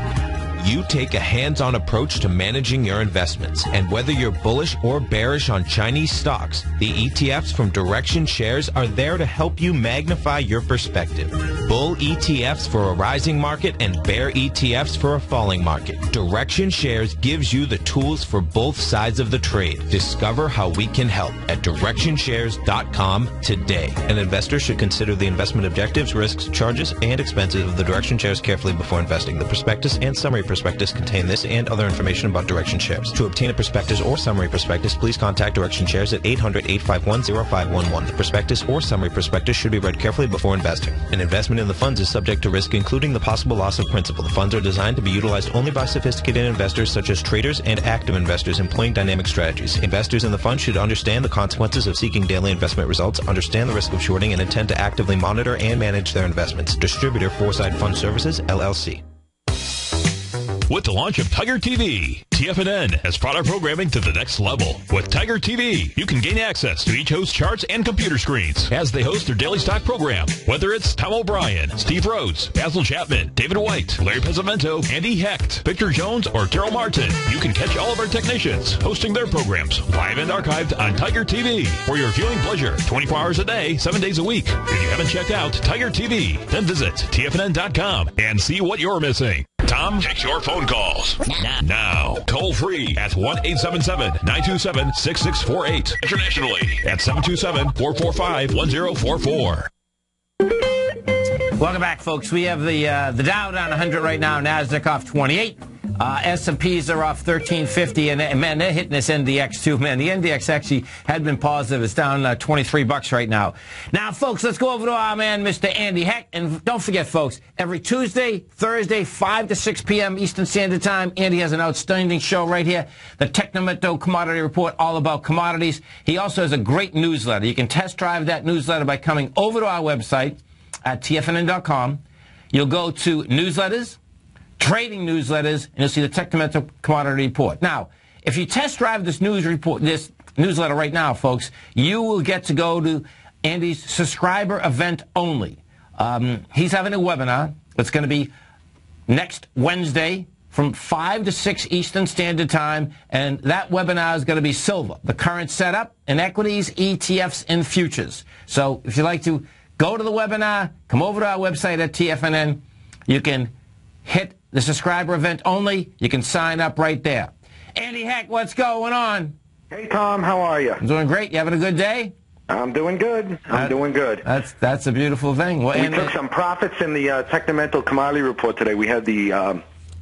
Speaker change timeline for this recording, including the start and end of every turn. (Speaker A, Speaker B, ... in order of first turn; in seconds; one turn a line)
Speaker A: 0.6-59.0
Speaker B: 60.7-99.7
Speaker C: 101.6-134.0
Speaker C: 134.6-148.3
Speaker C: 149.1-163.5
Speaker C: 164.1-169.3
Speaker D: 169.7-170.8
Speaker C: 170.8-172.1
Speaker D: 172.5-174.2
Speaker C: 173.5-176.1
Speaker D: 175.7-179.6